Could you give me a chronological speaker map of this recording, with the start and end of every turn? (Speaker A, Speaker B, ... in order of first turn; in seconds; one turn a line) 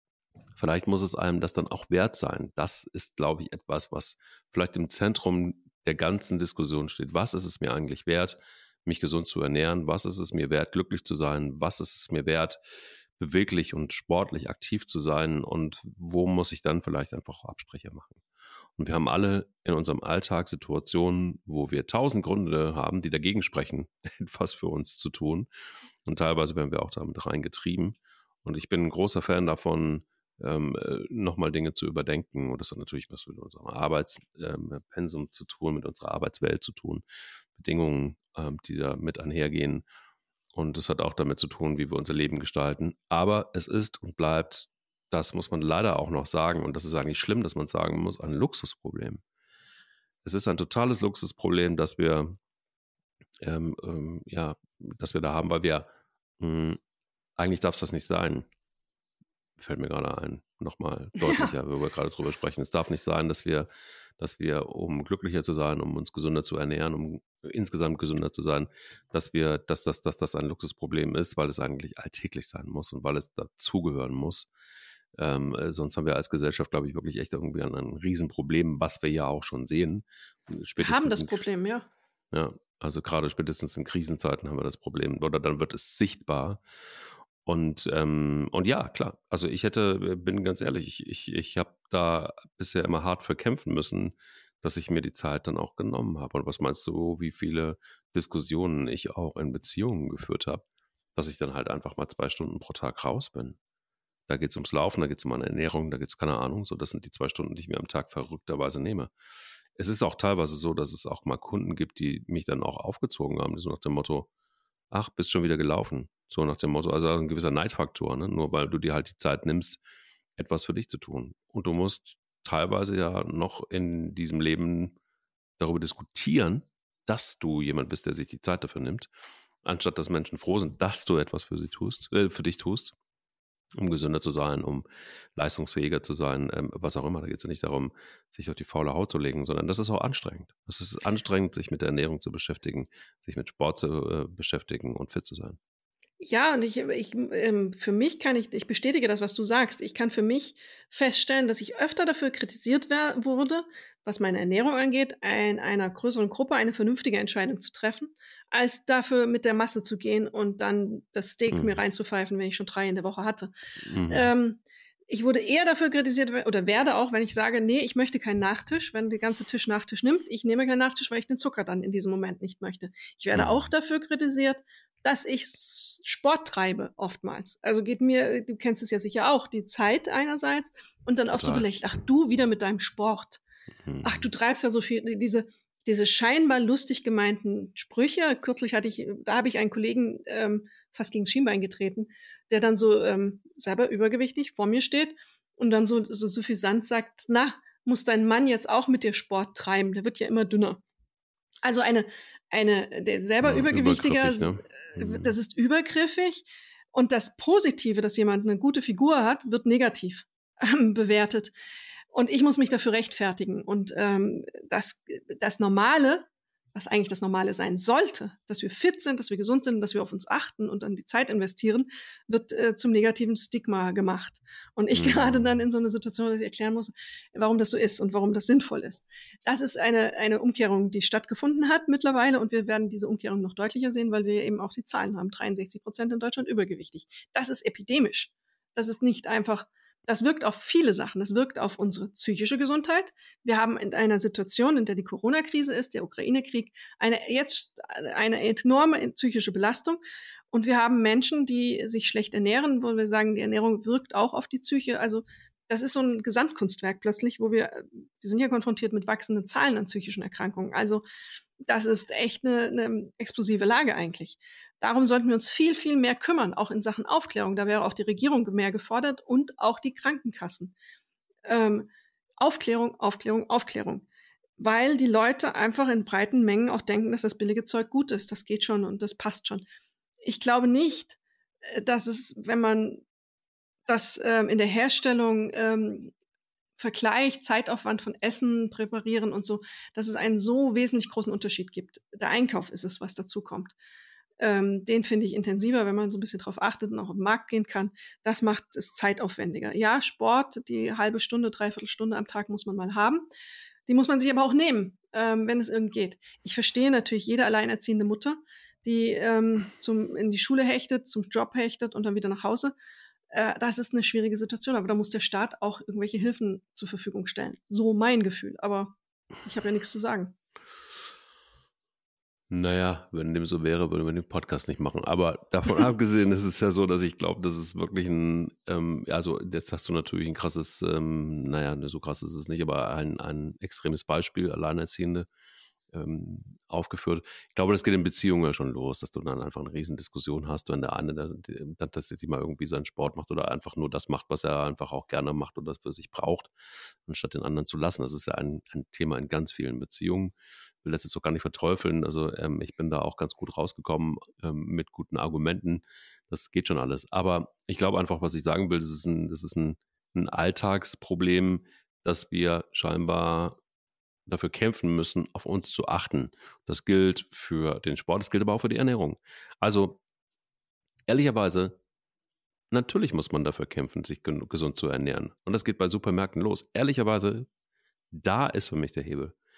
Speaker A: 0.6-12.6
Speaker A: 13.2-18.2
Speaker A: 18.8-25.5
Speaker A: 26.1-37.0
Speaker A: 37.5-39.9
Speaker A: 40.5-49.2
Speaker A: 50.2-52.4
Speaker A: 53.4-55.9
Speaker A: 56.4-56.8
Speaker A: 57.4-58.5
Speaker A: 59.6-74.5
Speaker B: 61.2-61.5
Speaker A: 75.2-81.4
Speaker B: 80.8-81.9
Speaker A: 82.3-86.6
Speaker A: 87.4-100.6
Speaker A: 101.2-103.6
Speaker A: 104.3-109.1
Speaker A: 109.8-114.3
Speaker A: 114.9-119.8
Speaker A: 120.4-125.0
Speaker A: 125.6-129.1
Speaker A: 129.6-132.9
Speaker A: 133.8-145.6
Speaker B: 146.2-163.5
Speaker A: 161.5-161.8
Speaker A: 163.8-164.3
Speaker B: 164.1-183.4
Speaker A: 173.3-173.7
Speaker A: 181.3-181.7
Speaker A: 183.8-184.3
Speaker B: 184.0-200.8
Speaker B: 201.6-211.5
Speaker A: 203.4-205.3
Speaker B: 212.1-261.0
Speaker A: 224.9-225.5
Speaker B: 261.6-270.7
Speaker B: 271.5-271.9
Speaker B: 272.4-274.1
Speaker B: 274.6-279.7
Speaker B: 280.2-283.0
Speaker B: 283.9-286.1
Speaker B: 286.8-293.8
Speaker B: 294.4-303.3
Speaker B: 303.9-312.8
Speaker B: 313.3-320.4
Speaker A: 322.5-335.3
Speaker A: 335.9-346.5
Speaker A: 347.1-363.6
Speaker A: 364.3-370.0
Speaker A: 371.1-371.8
Speaker A: 372.7-377.5
Speaker A: 378.1-379.4